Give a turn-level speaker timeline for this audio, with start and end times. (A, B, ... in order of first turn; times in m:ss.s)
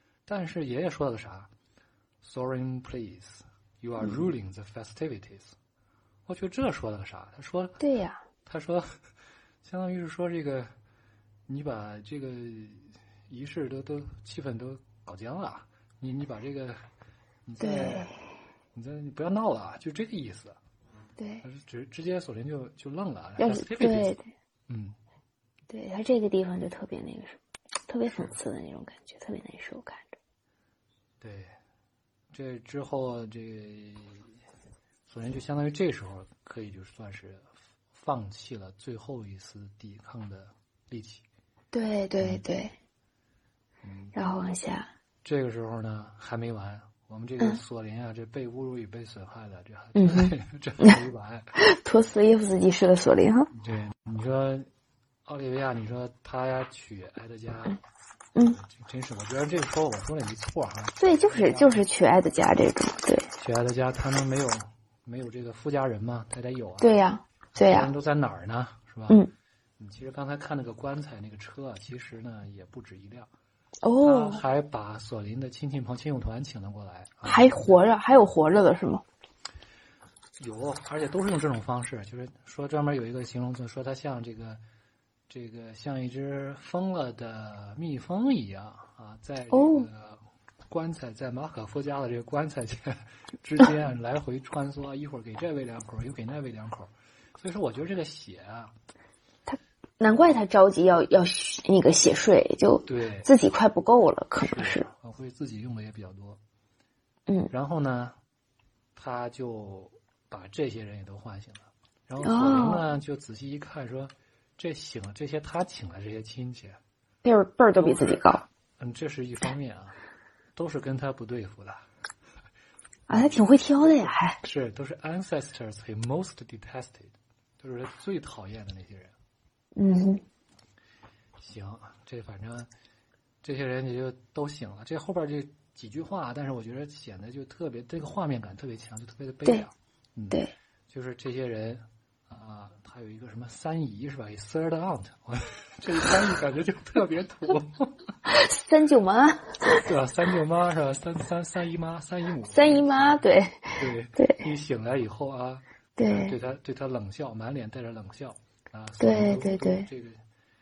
0:00.2-0:01.5 A
0:02.2-0:05.6 A
0:06.3-0:07.8 A
0:07.8-0:08.2 B
0:08.4-0:09.0 A
0:09.6-0:10.7 A
0:11.5-0:16.8 A
0:17.4-0:18.1 A
0:17.6-0:18.1 B
0:18.7-0:20.6 A
0:21.2-0:21.4 B
0:21.4-0:24.2 A
0:23.4-0:24.2 B
0:24.7-0:25.0 A
0:25.7-0:30.2 B
0:31.2-0:31.5 A
0:32.3-0:34.3 A
0:35.1-0:41.2 A
0:41.7-0:42.7 B
0:42.2-0:42.4 A
0:43.8-0:44.1 A
0:44.1-0:44.9 B
0:45.2-0:51.6 A
0:49.9-0:50.9 B
0:51.6-0:53.5 B
0:53.5-0:54.7 A
0:55.2-0:57.8 A
0:58.4-1:01.8 A
1:01.0-1:03.3 B
1:03.4-1:07.0 A
1:06.8-1:07.9 B
1:07.5-1:09.2 A
1:09.8-1:13.3 A
1:13.8-1:14.4 B
1:14.0-1:17.9 A
1:17.2-1:19.0 B
1:20.4-1:24.6 A
1:25.3-1:38.7 A
1:29.5-1:29.9 B
1:39.5-1:44.8 B
1:42.8-1:43.3 A
1:44.4-1:46.4 A
1:47.5-1:48.2 A
1:49.0-1:56.8 A
1:52.2-1:52.8 B
1:57.2-1:58.4 B
1:57.8-2:00.0 A
2:00.6-2:01.9 A
2:03.1-2:04.4 B
2:04.4-2:09.1 A
2:09.7-2:10.2 B
2:11.4-2:12.7 A
2:13.4-2:28.0 A
2:28.2-2:29.8 B
2:29.7-2:33.2 A
2:32.5-2:34.4 B
2:33.8-2:40.2 A
2:36.0-2:36.3 B
2:39.0-2:39.9 B